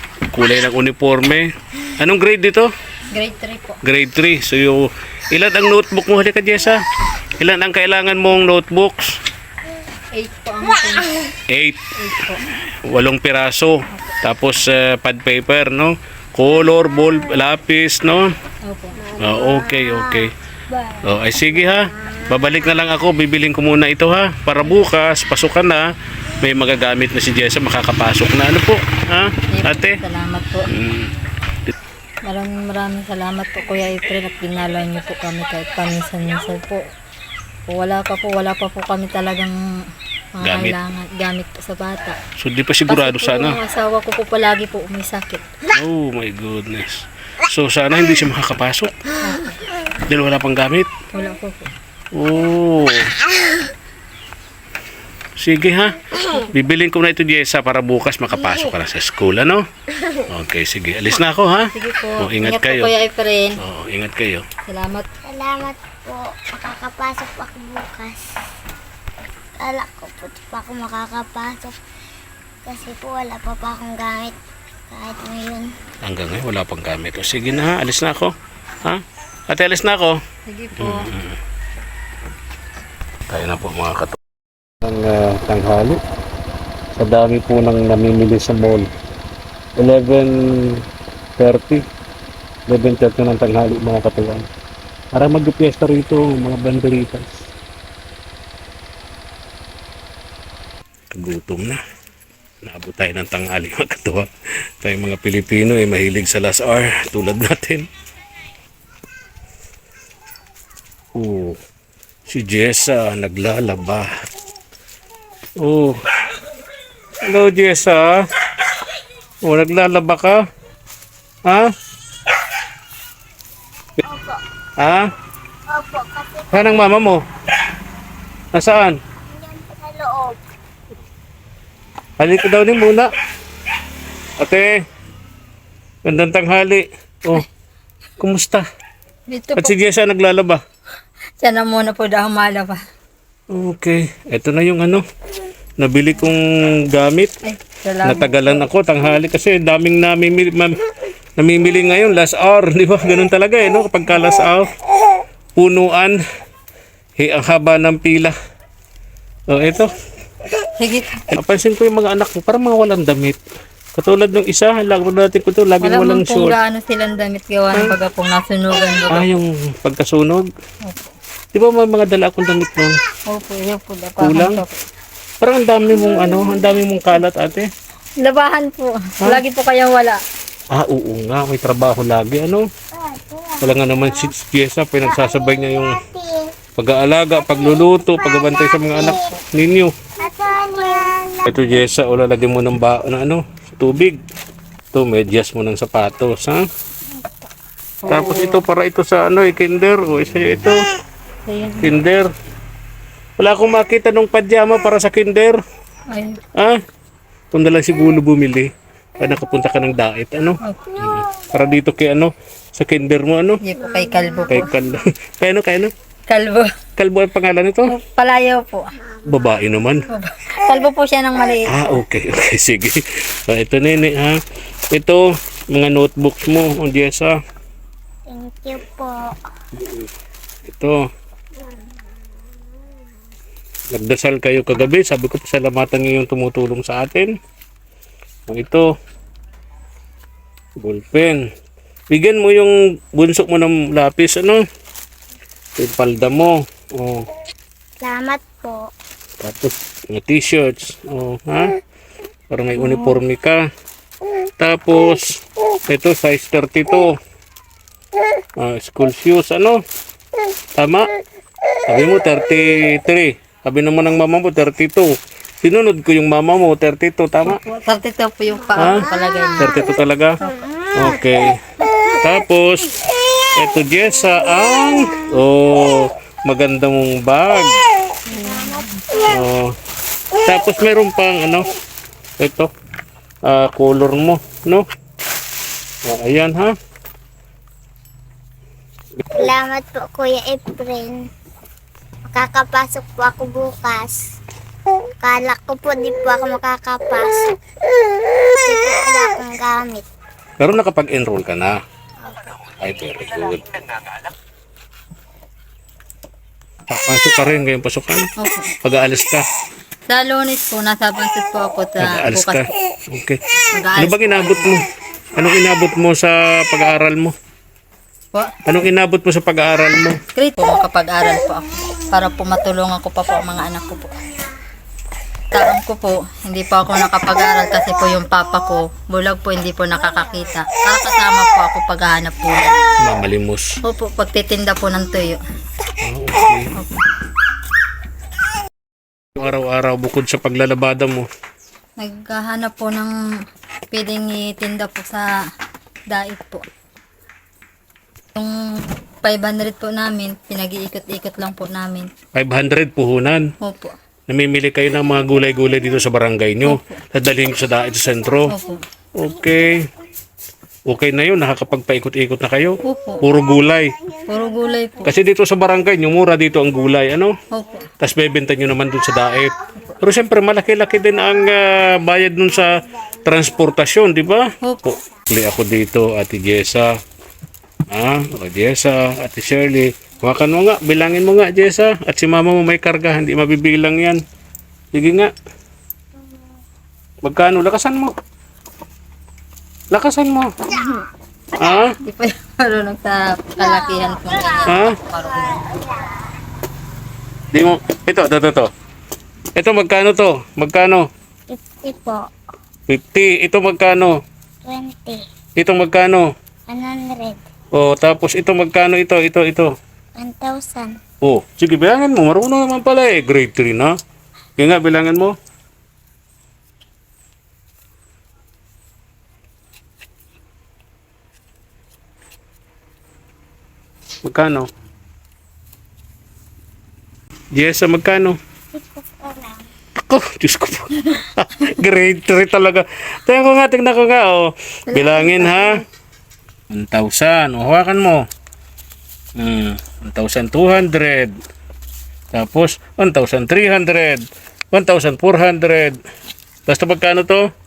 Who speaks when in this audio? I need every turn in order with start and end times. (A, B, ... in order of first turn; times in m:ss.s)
0:00.3-0:02.7 A
0:03.1-0:03.8 B
0:03.8-0:06.8 A
0:07.4-0:09.2 A
0:10.1-0:11.2 B
0:11.5-0:11.8 A
0:12.0-0:12.4 B
0:12.8-0:18.3 A
0:18.6-0:19.0 B
0:19.2-0:20.3 A
0:21.0-0:30.0 A
0:29.5-0:30.7 B
0:30.7-0:31.1 A
0:32.2-0:36.9 B
0:37.7-0:39.6 B
0:40.4-0:42.2 B
0:40.4-0:40.8 A
0:42.4-0:43.6 A
0:42.9-0:45.5 B
0:45.7-0:48.9 A
0:49.2-0:49.6 B
0:50.1-0:50.9 A
0:51.1-0:51.7 B
0:52.1-0:53.1 A
0:55.4-0:59.7 A
1:00.3-1:02.9 A
1:01.7-1:03.6 B
1:03.6-1:04.5 A
1:04.7-1:05.1 B
1:05.2-1:08.3 C
1:09.6-1:11.8 C
1:12.7-1:14.4 C
1:14.9-1:15.7 C
1:16.0-1:20.2 A
1:20.5-1:21.1 B
1:20.8-1:21.4 A
1:23.3-1:24.2 A
1:24.8-1:26.0 A
1:27.0-1:28.9 A
1:29.8-1:30.8 A
1:31.4-1:31.8 A
1:32.7-1:34.5 A
1:35.1-1:37.4 A
1:41.1-1:41.8 A
1:42.6-1:44.3 A
1:44.8-1:47.9 A
1:51.1-1:51.6 A
1:52.3-1:54.1 A
1:55.6-1:56.0 A
1:57.2-1:58.3 A
1:59.4-2:00.4 A
2:01.4-2:01.7 A
2:04.1-2:04.4 C
2:04.8-2:05.1 A
2:05.7-2:06.9 C
2:06.5-2:07.2 A
2:08.5-2:09.0 A
2:09.2-2:10.4 C
2:12.2-2:13.1 A
2:14.4-2:14.8 A
2:16.0-2:17.5 A
2:18.2-2:18.6 A
2:19.3-2:19.8 B
2:19.6-2:20.6 A
2:21.4-2:22.8 B
2:23.5-2:25.0 A
2:25.8-2:27.3 A
2:27.4-2:28.6 B
2:28.0-2:30.8 A
2:31.4-2:34.7 A
2:35.6-2:36.2 A
2:37.2-2:38.4 A
2:39.5-2:39.9 A
2:40.8-2:41.3 B
2:41.3-2:43.4 A
2:44.0-2:46.6 A
2:45.8-2:49.3 B
2:49.1-2:50.5 A
2:50.8-2:51.1 B
2:51.5-2:53.0 A
2:53.3-2:54.8 B
2:54.2-2:54.6 A
2:55.4-2:57.7 A
2:58.2-3:00.2 B
3:00.7-3:02.7 A
3:02.9-3:04.3 C
3:03.6-3:06.0 A
3:05.0-3:06.5 C
3:06.8-3:09.9 A
3:07.4-3:09.4 C
3:09.0-3:09.4 B
3:10.2-3:11.7 C
3:11.4-3:14.2 A
3:14.9-3:16.7 A
3:18.1-3:18.6 B
3:18.1-3:20.8 A
3:21.5-3:22.0 B
3:21.8-3:22.3 A
3:23.4-3:25.6 A
3:26.1-3:26.4 B
3:26.5-3:26.8 A
3:27.5-3:33.6 A
3:30.6-3:31.1 B
3:33.6-3:34.7 B
3:34.5-3:35.9 A
3:36.3-3:36.8 B
3:37.0-3:37.9 A
3:37.9-3:38.9 B
3:39.2-3:40.1 A
3:40.1-3:41.8 B
3:41.7-3:44.4 A
3:44.9-3:47.4 A
3:48.3-3:49.4 C
3:49.7-3:50.1 A
3:50.7-3:51.0 A
3:53.9-3:57.4 A
3:58.5-3:58.9 A
4:00.8-4:01.5 A
4:02.1-4:04.6 A
4:05.8-4:07.3 A
4:08.0-4:08.9 C
4:09.4-4:11.7 A
4:12.5-4:13.6 A
4:14.6-4:17.2 A
4:18.6-4:19.8 A
4:20.8-4:21.1 A
4:21.9-4:27.6 A
4:27.4-4:29.9 B
4:28.8-4:30.4 A
4:30.9-4:31.6 A
4:32.2-4:37.8 A
4:38.3-4:39.0 B
4:38.3-4:39.4 C
4:39.3-4:39.8 A
4:40.5-4:41.7 A
4:42.4-4:42.7 A
4:43.4-4:44.9 A
4:46.0-4:46.8 A
4:49.3-4:51.3 C
4:52.3-4:54.2 C
4:55.2-4:57.6 C
4:58.6-5:00.1 C
5:00.6-5:01.8 A
5:02.8-5:04.0 A
5:06.9-5:08.3 A
5:08.4-5:08.7 B
5:08.8-5:09.4 A
5:10.1-5:12.7 B
5:12.0-5:13.4 A
5:13.8-5:14.8 B
5:14.0-5:17.4 A
5:18.7-5:20.2 A
5:20.4-5:24.2 B
5:25.5-5:32.8 B
5:33.0-5:33.8 A
5:33.8-5:35.4 B
5:36.0-5:36.7 A
5:39.4-5:41.3 A
5:42.0-5:43.2 B
5:43.9-5:45.3 B
5:46.1-5:46.7 B
5:48.4-5:52.1 B
5:52.4-5:53.5 A
5:53.6-5:54.0 B
5:54.3-5:58.5 A
5:56.6-5:57.0 B
5:58.5-5:58.8 B
5:59.2-5:59.9 A
6:00.9-6:04.0 A
6:02.8-6:03.2 B
6:04.3-6:05.2 B
6:05.0-6:07.4 A
6:07.5-6:07.9 B
6:08.0-6:17.0 A
6:14.6-6:15.0 B
6:17.9-6:24.2 A
6:24.9-6:25.3 A
6:27.2-6:28.1 A
6:29.9-6:30.5 A
6:31.6-6:32.0 A
6:32.0-6:35.5 B
6:33.8-6:34.6 C
6:34.7-6:35.0 A
6:35.3-6:36.2 C
6:37.5-6:38.7 A
6:39.5-6:41.1 A
6:41.5-6:42.3 C
6:42.9-6:44.2 A
6:44.6-6:45.2 C
6:45.6-6:46.3 A
6:46.7-6:47.5 C
6:47.7-6:49.7 A
6:50.2-6:51.0 C
6:51.2-6:54.0 A
6:54.6-6:55.4 A
7:04.2-7:04.7 A
7:07.5-7:08.4 A
7:08.7-7:09.7 C
7:10.0-7:15.8 A
7:15.0-7:15.8 B
7:16.7-7:18.2 A
7:19.4-7:21.3 A
7:22.3-7:26.0 A
7:26.7-7:27.5 A